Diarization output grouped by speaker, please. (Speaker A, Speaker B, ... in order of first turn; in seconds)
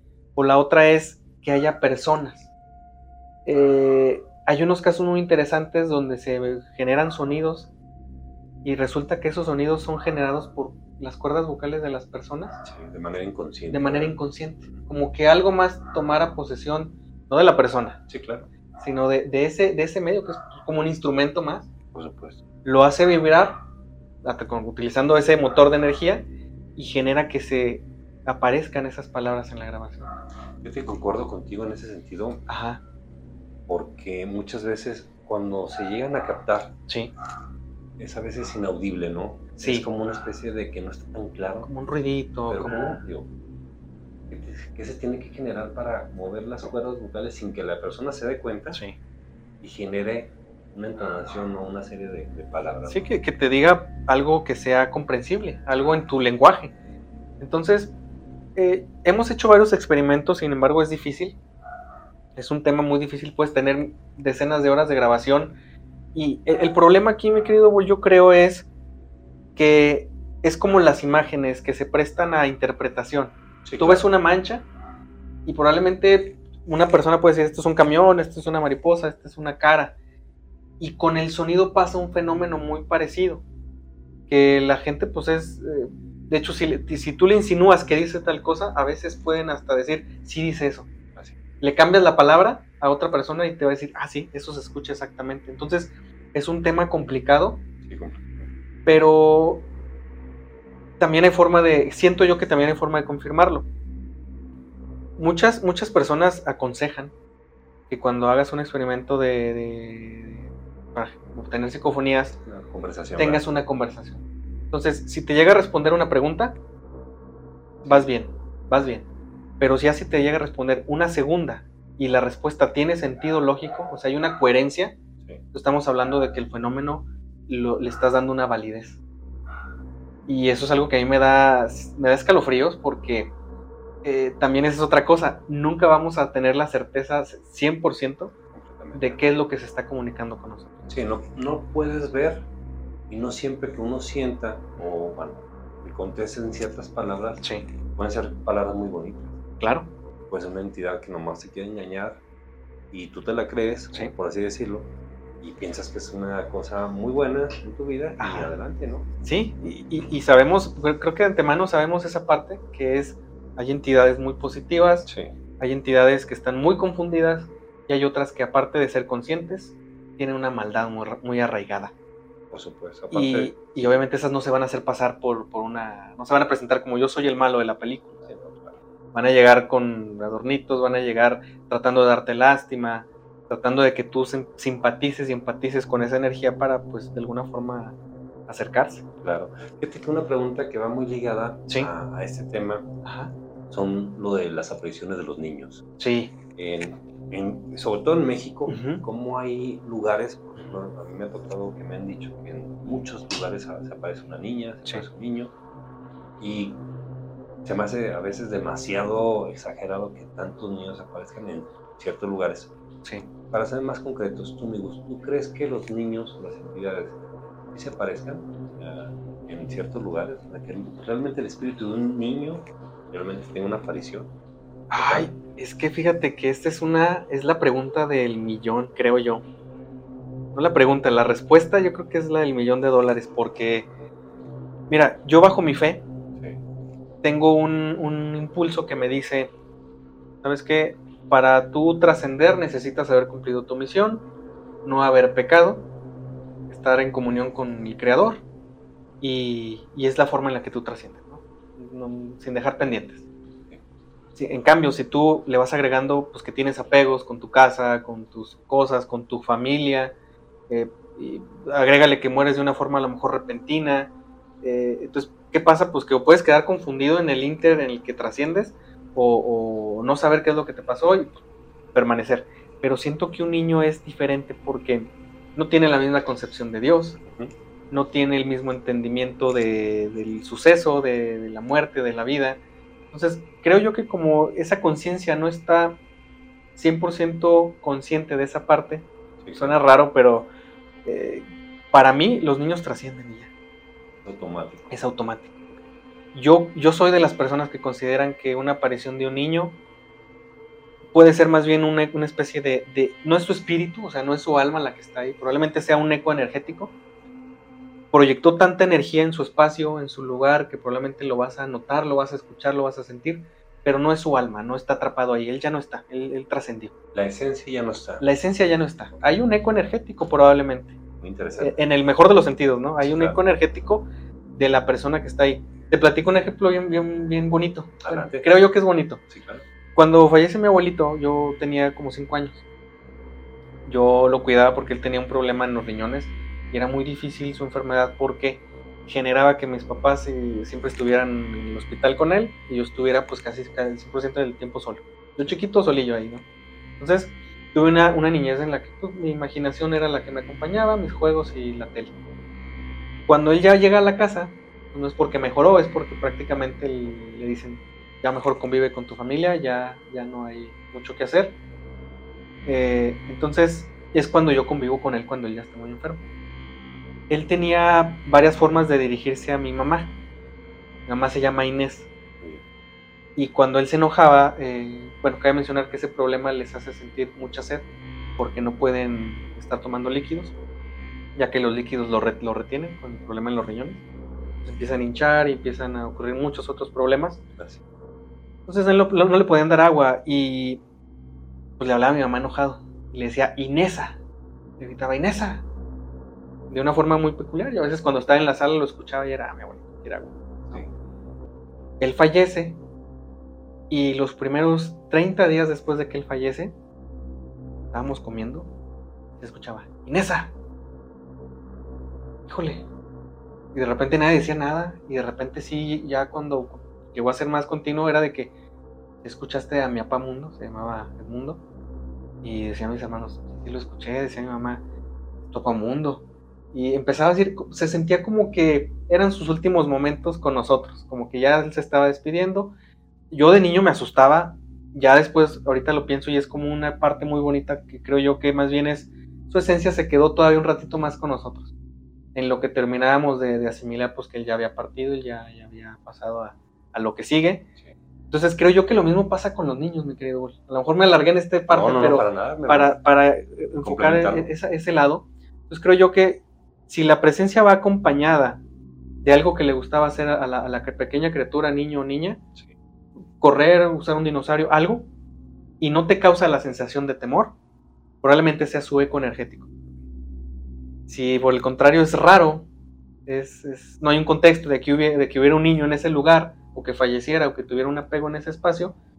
Speaker A: 0.3-2.5, 3.5-7.7, 8.6-12.6, 13.7-18.0, 18.8-21.7, 22.6-23.6, 24.2-30.1, 32.5-32.8, 39.6-39.9, 41.6-42.8, 52.9-56.7, 57.4-57.9, 58.5-61.4, 62.3-65.5, 66.1-68.7, 69.5-74.6, 75.5-79.9, 80.8-83.4, 84.3-90.9, 91.6-97.6, 98.8-99.7, 101.0-103.7, 105.2-107.1, 107.9-112.4, 113.2-116.6, 117.9-119.0, 119.6-124.9, 125.5-129.0, 130.3-133.3, 134.0-138.3, 138.9-140.7, 147.4-147.7, 149.6-149.9, 158.2-158.5, 159.2-165.1, 165.6-171.9, 173.1-178.2, 179.1-187.9, 188.5-189.0, 193.0-193.3, 196.0-196.3, 198.7-199.0, 224.9-229.4, 230.5-233.9, 234.9-236.0, 237.2-239.5, 240.4-244.2, 244.8-245.9, 246.7-248.4, 249.2-253.2, 254.3-260.1, 260.7-264.1, 264.6-271.4, 271.9-277.2, 277.9-282.6, 283.1-286.0, 286.8-290.5, 291.1-293.5, 294.9-295.5, 296.3-299.8, 301.1-306.9, 308.1-316.9, 318.2-320.9, 321.6-329.2, 329.9-332.6, 333.9-346.4, 347.0-352.1, 353.3-361.6, 362.6-366.2, 367.3-370.1, 371.1-372.1, 373.4-377.9, 378.4-380.5, 381.4-384.0, 384.6-387.4, 388.7-390.8, 391.8-394.2, 394.8-395.6, 396.7-400.8, 402.0-402.8, 403.9-406.7, 407.9-408.7, 409.4-410.5, 412.5-412.8, 413.7-418.5, 419.2-421.6, 422.4-424.8, 425.5-432.7, 433.3-441.7, 442.3-447.6, 448.3-458.6, 459.2-462.4, 463.4-465.1, 465.8-467.5, 468.2-469.7, 471.1-472.7, 473.2-478.9
Speaker B: 12.6-14.1, 18.1-18.5, 21.9-22.4, 30.6-32.4, 33.7-36.8, 38.0-41.7, 42.5-43.3, 44.3-48.8, 49.6-53.1, 73.6-74.0, 97.8-98.5, 112.4-113.5, 117.8-118.1, 138.5-139.2, 140.9-142.4, 143.1-149.3, 150.2-152.2, 152.9-159.1, 165.1-165.3, 172.5-173.6, 178.2-178.8, 189.2-192.9, 193.7-195.8, 196.5-205.5, 206.4-206.8, 207.6-212.7, 213.5-217.2, 217.7-224.3, 225.0-225.3, 277.2-277.5, 289.4-289.8, 294.2-295.0, 317.1-318.2, 321.2-321.8, 323.0-323.4, 328.0-328.5, 329.3-329.6, 451.7-452.9, 453.8-454.5